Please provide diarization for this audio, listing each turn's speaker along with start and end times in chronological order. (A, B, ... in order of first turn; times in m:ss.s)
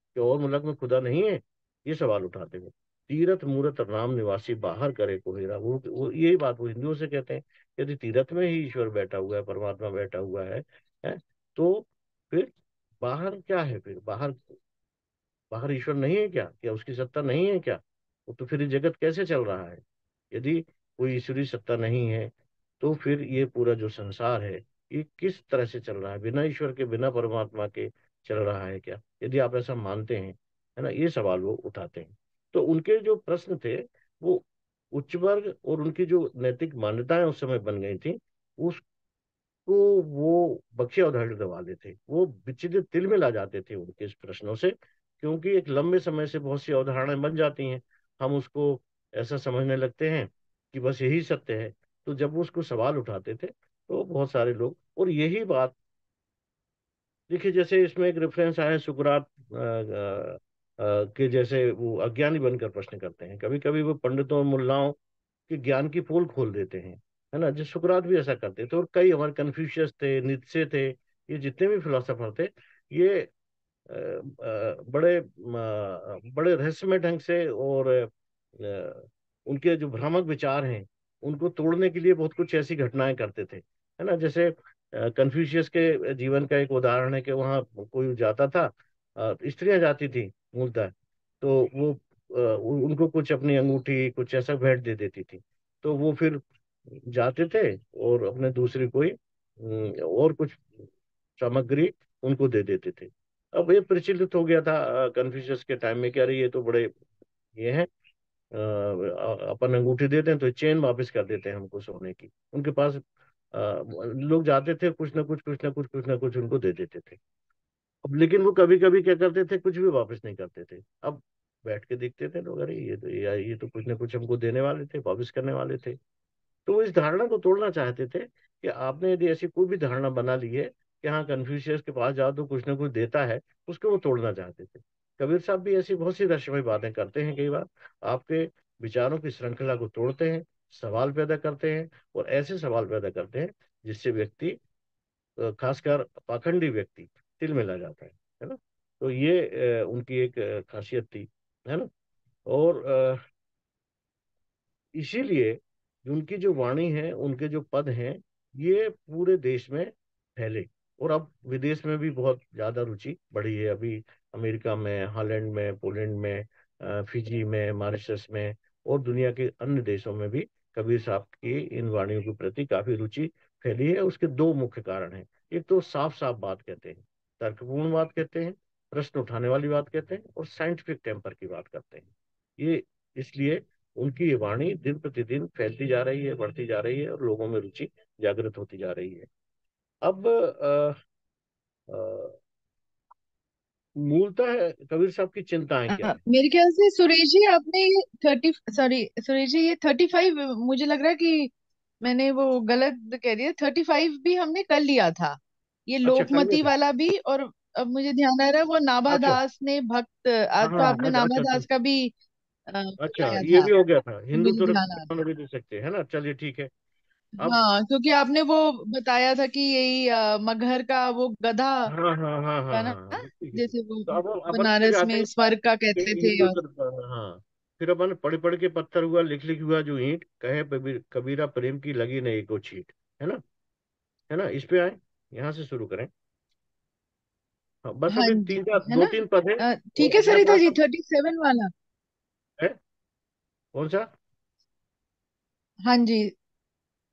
0:00.1-0:12.5 A
0:13.0-0:14.5 A
0:15.5-0:38.8 A
0:39.6-0:55.7 A
0:57.3-1:05.0 A
1:05.5-1:13.3 A
1:13.9-1:40.6 A
1:41.4-1:46.9 A
1:47.5-1:47.9 A
1:48.5-1:53.0 A
1:53.5-1:57.2 A
1:58.0-2:06.0 A
2:06.6-2:24.6 A
2:25.4-2:31.9 A
2:32.5-2:33.2 A
2:34.9-3:02.1 A
3:02.6-3:09.3 A
3:10.0-3:11.0 A
3:11.9-3:12.4 A
3:14.0-3:16.2 A
3:15.9-3:21.5 B
3:22.0-3:32.1 B
3:26.0-3:26.7 A
3:29.1-3:29.4 A
3:30.6-3:31.7 A
3:32.7-3:33.7 B
3:33.0-3:36.7 A
3:34.3-3:35.1 B
3:37.4-3:41.9 B
3:41.9-3:45.3 A
3:42.7-3:46.6 B
3:45.9-3:53.4 A
3:54.3-3:56.1 A
3:57.8-4:00.8 A
3:58.1-4:01.7 B
4:03.7-4:04.1 A
4:05.8-4:06.3 B